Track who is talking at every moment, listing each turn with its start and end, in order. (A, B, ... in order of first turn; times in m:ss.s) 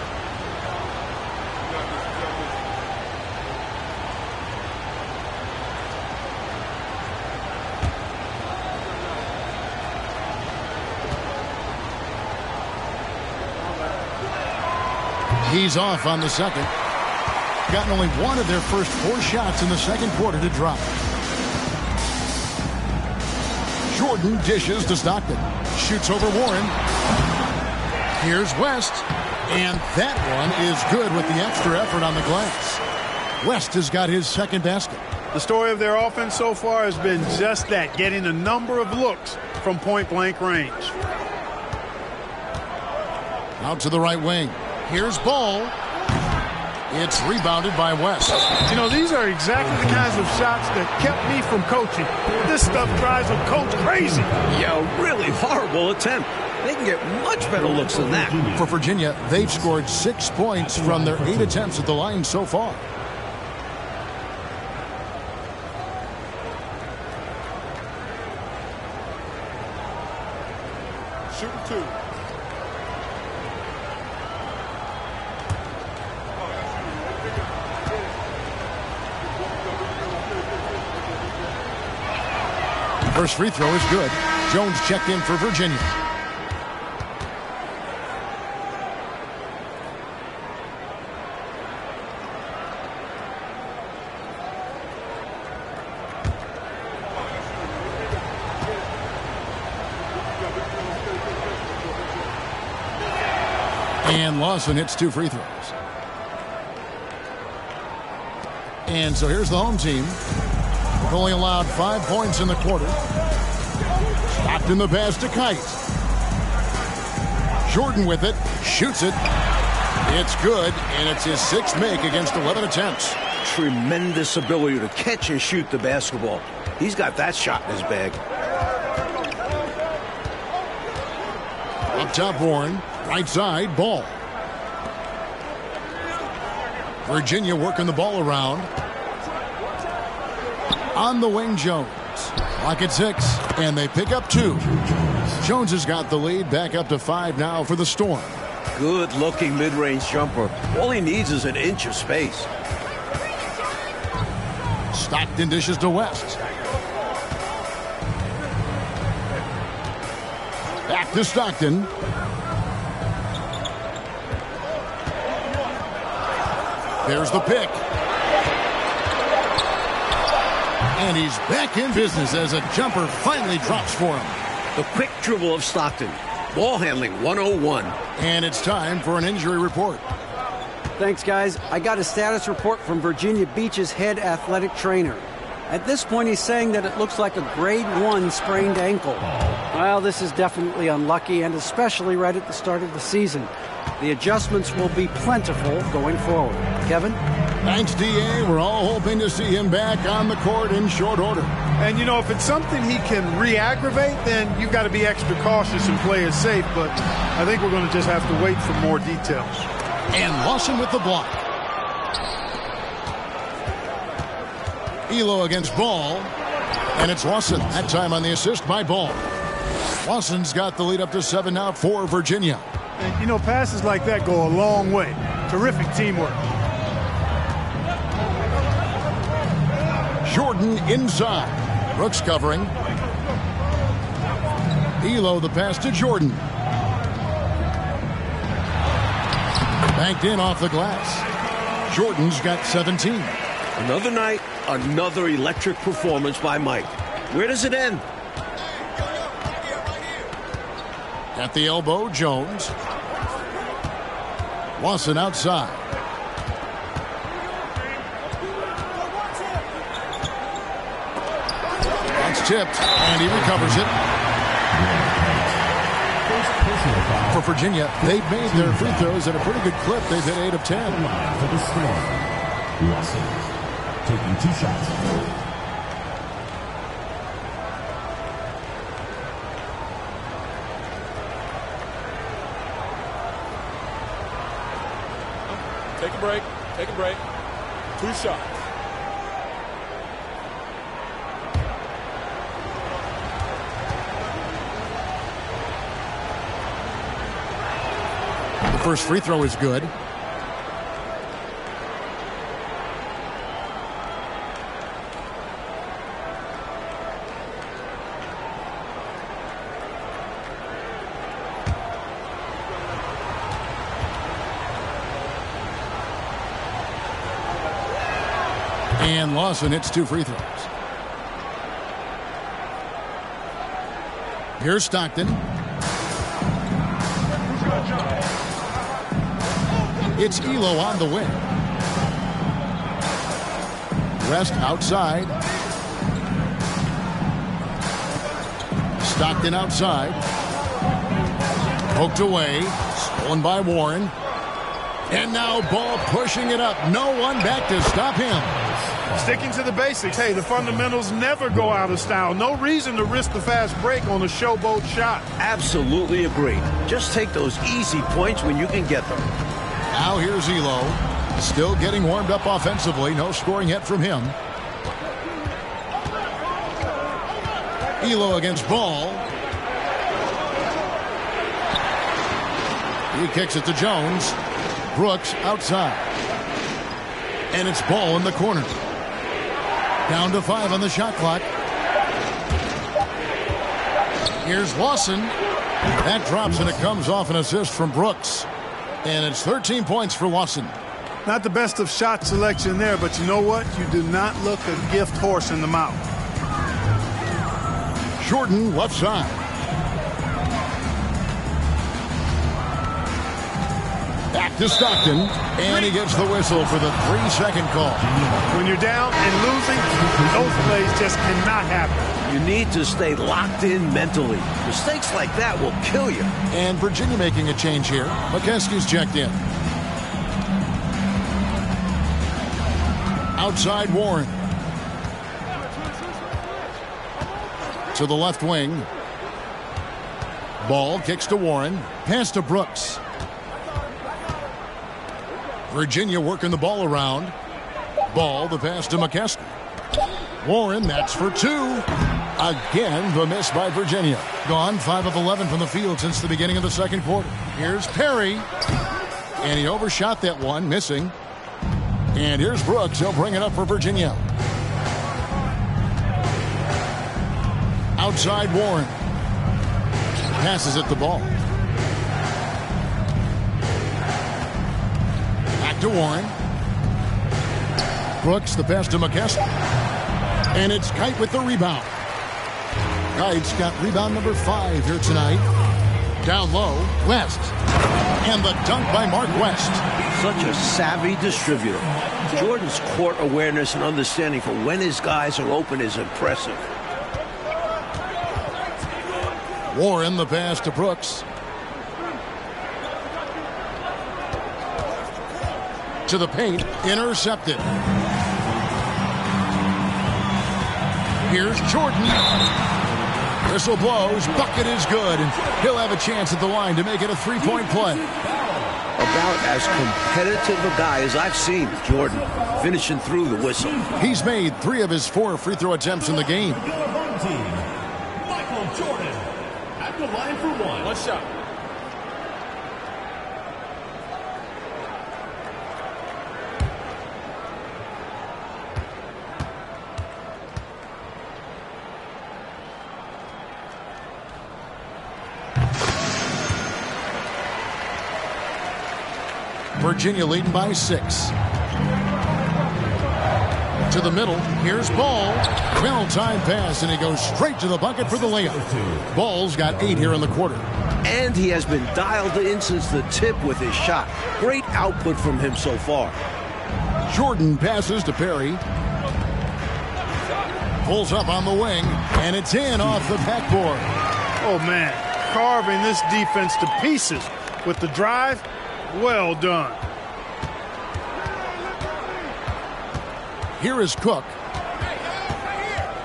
0:15.4-0:16.7 A
0:17.7-0:21.0 A
0:23.9-0:26.8 A
0:28.2-0:32.8 A
0:33.4-0:35.1 A
0:35.3-0:41.0 B
0:43.6-0:45.7 A
0:46.9-0:48.6 A
0:48.7-0:54.3 B
0:49.6-0:50.3 C
0:52.2-0:54.7 C
0:54.5-0:58.4 D
0:57.5-0:59.8 C
0:58.6-1:02.8 A
1:00.6-1:01.7 C
1:11.3-1:12.0 E
1:23.1-1:26.0 A
1:44.0-1:45.8 A
1:48.9-1:50.2 A
1:51.0-1:53.0 A
1:54.3-1:55.8 A
1:57.6-1:59.2 A
2:00.0-2:03.2 A
2:03.4-2:08.2 D
2:11.9-2:14.1 A
2:17.0-2:18.7 A
2:20.9-2:24.7 A
2:24.5-2:25.4 C
2:25.4-2:28.4 A
2:28.7-2:32.5 D
2:34.9-2:36.4 A
2:40.9-2:41.9 A
2:47.0-2:47.8 A
2:51.0-2:54.4 A
2:54.8-2:58.0 D
2:58.2-3:00.0 A
3:01.0-3:17.2 F
3:09.2-3:09.6 C
3:17.6-3:21.5 A
3:21.8-3:29.7 B
3:30.1-3:31.4 A
3:35.1-3:36.3 A
3:37.0-3:39.2 A
3:40.0-3:42.6 A
3:43.0-3:46.4 B
3:50.2-3:52.8 A
3:55.0-3:56.4 A
3:59.9-4:01.3 A
4:01.9-4:03.4 A
4:03.8-4:08.0 D
4:11.4-4:12.7 A
4:14.8-4:15.8 A
4:22.2-4:24.0 A
4:23.3-4:23.9 C
4:24.7-4:25.7 C
4:26.2-4:27.4 C
4:27.3-4:31.0 A
4:28.0-4:29.2 C
4:30.8-4:33.5 C
4:34.0-4:35.0 C
4:45.5-4:47.2 E
4:48.0-4:48.6 E
4:58.7-4:59.9 A
5:19.0-5:20.7 A
5:24.6-5:25.4 A
5:30.1-5:31.4 A
5:34.2-5:35.4 A
5:39.0-5:40.2 A
5:41.9-5:44.1 A
5:45.1-5:48.6 A
5:48.5-5:49.5 C
5:49.1-5:55.3 B
5:55.4-5:59.3 D
5:59.9-6:04.4 A
6:08.0-6:09.3 A
6:13.1-6:16.1 A
6:17.5-6:18.8 A
6:20.1-6:21.5 A
6:24.4-6:25.4 A
6:26.0-6:28.5 A
6:26.5-6:26.8 C
6:29.0-6:30.8 A
6:31.2-6:36.0 B
6:38.2-6:39.4 A
6:44.3-6:48.1 A
6:48.0-6:48.6 C
6:48.5-6:52.1 B
6:49.7-6:51.1 C
6:52.2-6:56.3 D
6:56.5-6:59.4 A
7:03.4-7:04.4 A
7:07.9-7:08.9 A
7:10.6-7:13.0 A
7:15.7-7:17.4 A
7:18.1-7:19.6 A
7:20.4-7:28.5 A
7:29.4-7:31.1 A
7:32.1-7:34.2 A
7:38.0-7:39.0 A
7:40.3-7:41.3 A
7:45.6-7:46.4 A
7:48.2-7:49.5 A
7:50.5-7:51.9 A
7:53.1-7:55.5 A
7:56.2-7:57.6 A
7:58.2-7:59.8 A
8:00.2-8:06.6 D
8:01.9-8:02.6 C
8:09.7-8:11.2 A
8:16.1-8:17.7 A
8:21.2-8:22.3 A
8:23.4-8:28.1 A
8:28.1-8:28.8 C
8:29.0-8:33.8 D
8:32.1-8:32.5 C
8:34.0-8:36.6 A
8:36.5-8:41.0 C
8:40.8-8:41.3 E
8:59.8-9:01.4 A
9:03.9-9:10.7 A
9:08.0-9:09.1 C
9:11.0-9:16.2 D
9:17.1-9:18.6 A
9:20.8-9:23.9 A
9:24.4-9:29.8 B
9:33.6-9:34.4 A